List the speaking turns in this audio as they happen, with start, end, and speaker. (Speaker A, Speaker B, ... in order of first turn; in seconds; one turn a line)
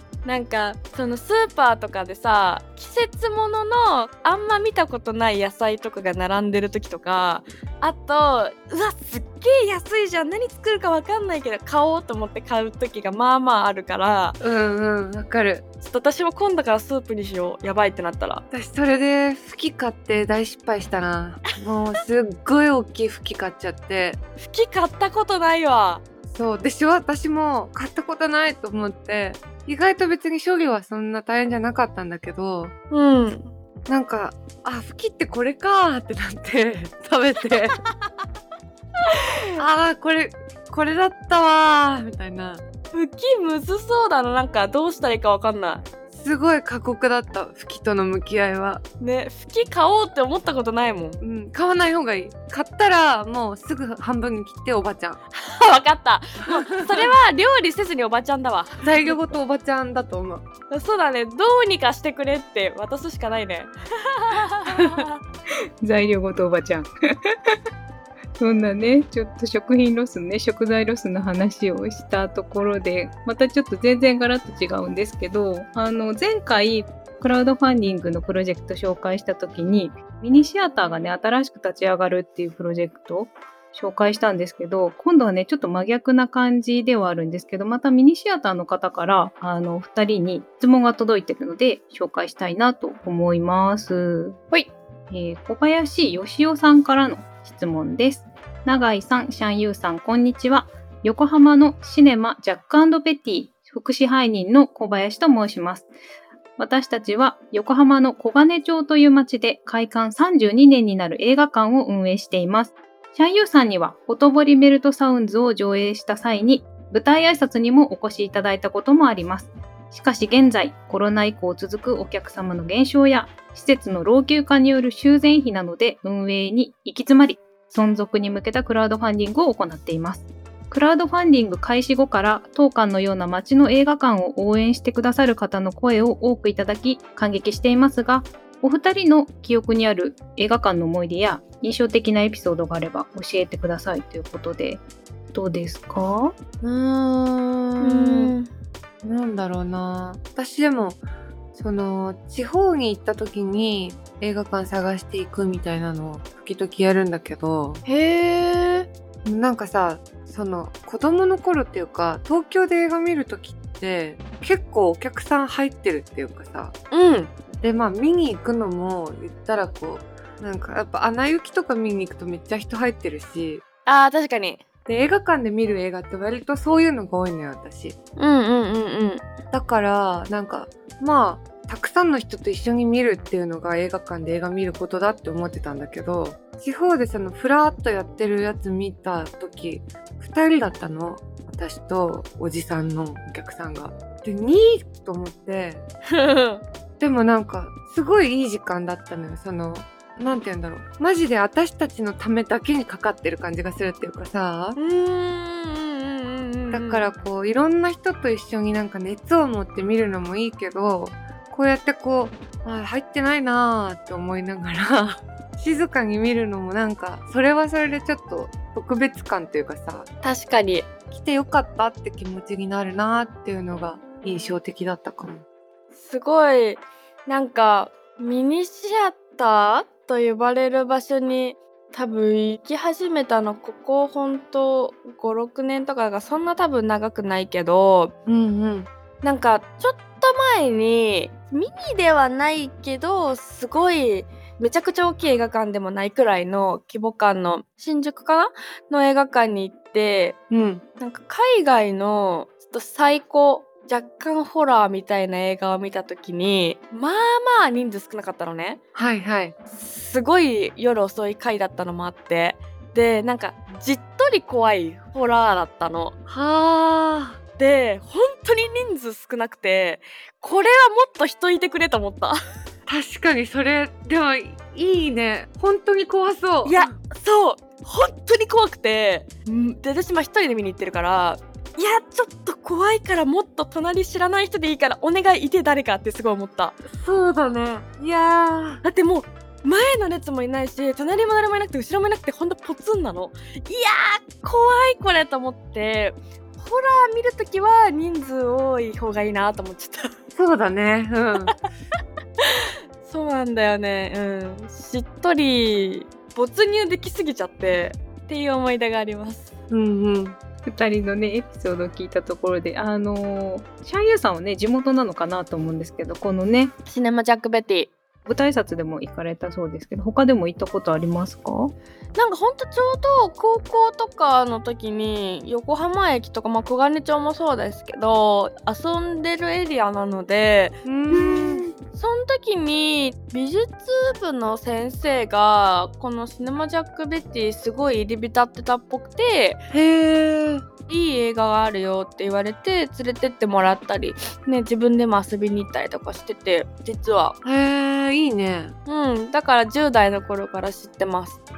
Speaker A: 0.2-14.4
Speaker B: 14.4-15.7
Speaker A: 15.8-18.4
Speaker B: 18.5-24.2
Speaker A: 24.4-26.0
Speaker B: 26.3-32.7
Speaker A: 32.9-33.5
Speaker B: 33.9-37.8
Speaker A: 39.1-39.5
Speaker B: 39.6-42.6
Speaker A: 42.9-45.8
Speaker B: 46.1-48.8
Speaker A: 49.0-51.2
Speaker B: 51.2-55.2
Speaker A: 55.4-59.2
Speaker B: 58.8-60.4
Speaker A: 60.7-65.2
Speaker C: 65.8-67.6
Speaker C: 68.4-94.4
Speaker C: 95.1-105.9
Speaker C: 106.6-144.8
Speaker C: 145.3-146.4
Speaker B: 146.6-148.3
Speaker A: 147.8-148.5
Speaker B: 149.0-151.0
Speaker B: 151.6-157.8
Speaker A: 157.8-158.9
Speaker B: 159.2-166.7
Speaker A: 166.9-167.3
Speaker B: 167.6-173.6
Speaker A: 173.9-174.6
Speaker B: 174.9-178.0
Speaker A: 178.2-179.2
Speaker B: 179.5-195.9
Speaker A: 196.1-196.6
Speaker B: 197.0-204.8
Speaker A: 204.8-207.1
Speaker B: 206.7-220.1
Speaker A: 220.2-220.9
Speaker B: 221.1-225.4
Speaker A: 225.9-238.1
Speaker B: 238.3-238.9
Speaker A: 239.2-250.4
Speaker B: 250.5-250.8
Speaker A: 251.0-258.8
Speaker B: 258.9-259.6
Speaker A: 259.7-266.1
Speaker B: 266.3-267.4
Speaker A: 267.6-272.4
Speaker B: 272.9-276.9
Speaker A: 276.6-286.8
Speaker B: 286.9-288.8
Speaker A: 288.8-300.1
Speaker B: 300.3-301.5
Speaker A: 302.4-309.5
Speaker B: 309.7-310.4
Speaker C: 310.6-316.7
Speaker A: 316.9-317.9
Speaker C: 318.3-321.7
Speaker A: 322.1-339.6
Speaker B: 330.9-331.6
Speaker B: 339.7-340.6
Speaker A: 340.9-347.4
Speaker B: 347.4-348.8
Speaker A: 348.9-351.4